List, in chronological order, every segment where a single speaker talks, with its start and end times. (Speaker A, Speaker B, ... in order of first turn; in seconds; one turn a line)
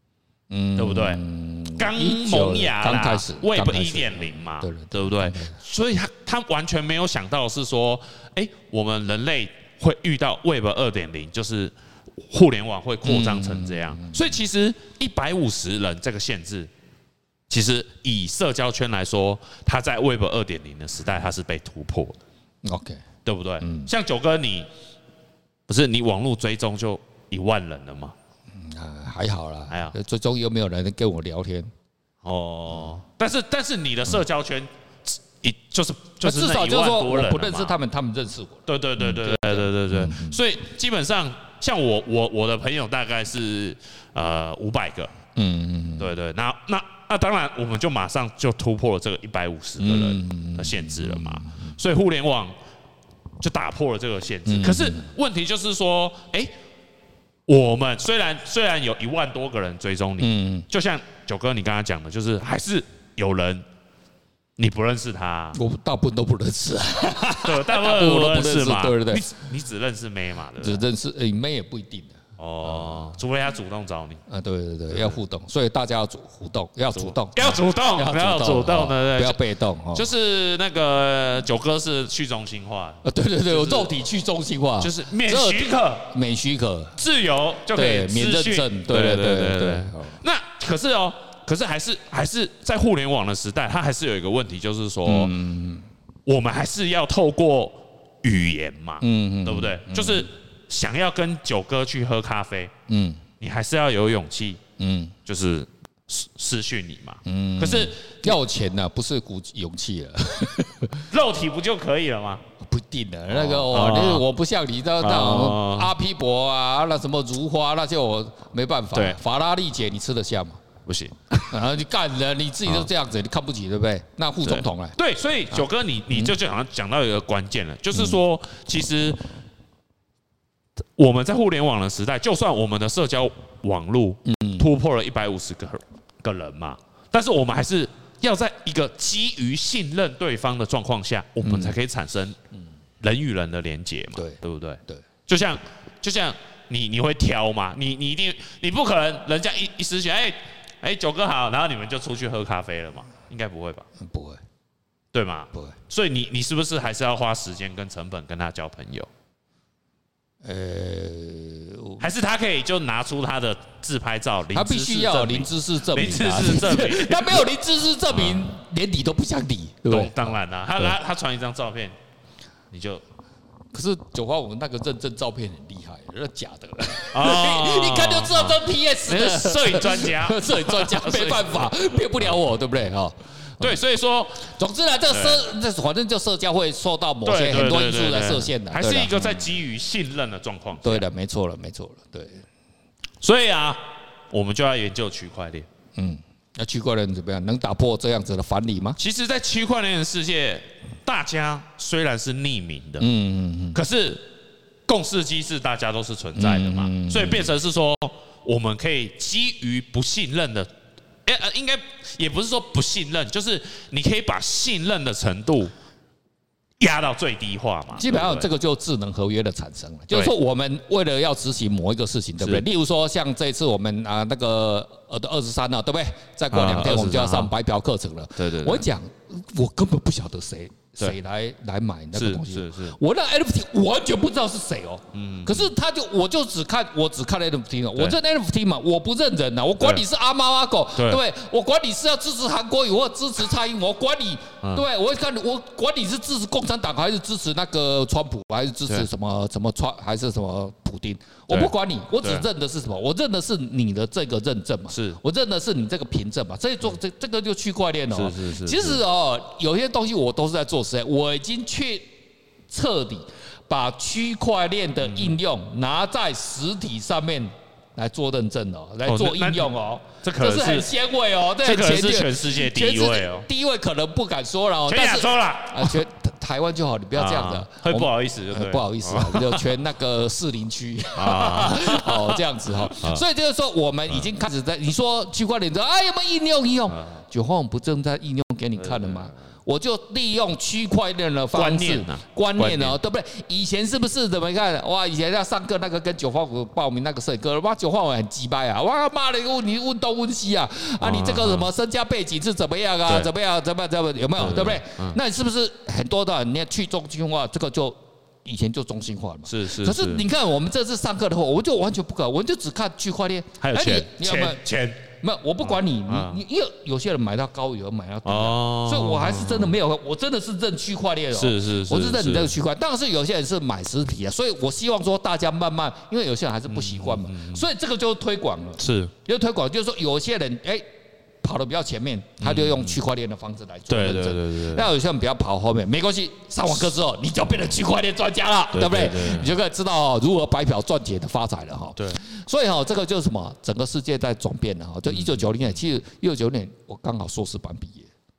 Speaker A: 0.5-5.6
Speaker B: 0.8-1.2
Speaker B: 1.8-11.7
Speaker B: 12.3-16.7
Speaker A: 13.0-14.4
Speaker B: 17.5-22.2
Speaker A: 22.6-23.0
Speaker B: 23.2-24.7
Speaker A: 23.6-23.9
Speaker B: 25.7-28.1
Speaker A: 28.5-31.7
Speaker B: 29.7-29.9
Speaker B: 32.2-37.8
Speaker A: 32.7-32.9
Speaker A: 36.2-40.4
Speaker B: 38.7-45.1
Speaker A: 45.3-46.1
Speaker B: 46.0-52.5
Speaker A: 49.8-51.7
Speaker B: 53.4-56.5
Speaker A: 54.4-55.1
Speaker B: 57.5-63.6
Speaker A: 60.2-60.7
Speaker B: 64.6-65.6
Speaker A: 65.5-69.3
Speaker B: 67.4-70.9
Speaker A: 70.6-73.1
Speaker B: 72.4-74.2
Speaker A: 74.3-80.1
Speaker B: 74.9-75.2
Speaker B: 76.9-79.4
Speaker B: 79.9-84.0
Speaker A: 83.0-87.0
Speaker B: 84.8-86.1
Speaker B: 87.0-95.3
Speaker A: 87.7-90.2
Speaker A: 95.0-95.8
Speaker B: 96.2-102.7
Speaker A: 99.0-100.3
Speaker A: 102.9-103.2
Speaker B: 103.4-104.6
Speaker A: 104.8-105.2
Speaker B: 105.2-108.4
Speaker A: 107.2-111.0
Speaker B: 111.1-112.4
Speaker A: 112.6-120.6
Speaker B: 113.3-114.2
Speaker B: 115.0-115.9
Speaker B: 118.9-119.2
Speaker B: 120.8-121.5
Speaker A: 121.5-125.0
Speaker B: 124.4-129.2
Speaker A: 125.5-126.3
Speaker A: 127.9-128.2
Speaker B: 131.0-142.3
Speaker A: 134.2-134.7
Speaker A: 141.4-141.8
Speaker B: 143.0-153.8
Speaker A: 144.1-145.0
Speaker A: 154.0-154.4
Speaker B: 155.1-159.1
Speaker A: 160.4-162.0
Speaker B: 162.0-167.5
Speaker A: 164.5-170.9
Speaker B: 168.1-168.5
Speaker B: 169.8-171.9
Speaker B: 172.7-173.0
Speaker A: 173.7-183.8
Speaker B: 177.1-181.7
Speaker B: 183.6-184.5
Speaker A: 184.5-189.5
Speaker B: 185.1-185.5
Speaker B: 187.2-191.1
Speaker A: 190.8-192.4
Speaker B: 193.2-195.7
Speaker A: 195.9-199.0
Speaker B: 199.0-203.1
Speaker A: 203.0-203.8
Speaker B: 203.7-204.3
Speaker B: 204.9-210.7
Speaker A: 206.3-207.5
Speaker B: 211.2-215.7
Speaker B: 216.8-218.5
Speaker A: 217.9-262.1
Speaker B: 222.4-222.6
Speaker B: 226.5-227.5
Speaker B: 228.4-228.9
Speaker B: 232.1-233.0
Speaker B: 235.1-235.7
Speaker B: 239.8-240.0
Speaker B: 240.9-241.2
Speaker B: 251.5-252.5
Speaker B: 254.9-255.2
Speaker B: 258.1-259.0
Speaker A: 262.7-330.8
Speaker B: 265.0-265.4
Speaker B: 269.0-270.9
Speaker B: 271.6-273.5
Speaker B: 274.9-276.0
Speaker B: 277.1-279.8
Speaker B: 281.1-283.2
Speaker B: 286.9-287.2
Speaker B: 288.8-289.4
Speaker B: 291.5-293.0
Speaker B: 301.0-301.7
Speaker B: 303.0-303.3
Speaker B: 304.4-305.2
Speaker B: 309.5-310.2
Speaker B: 313.6-315.1
Speaker B: 315.6-316.4
Speaker B: 318.2-319.8
Speaker B: 321.3-322.5
Speaker B: 326.7-327.6
Speaker B: 328.8-329.1
Speaker A: 331.4-348.1
Speaker B: 332.4-333.0
Speaker B: 333.9-334.9
Speaker B: 338.7-339.6
Speaker B: 345.1-345.5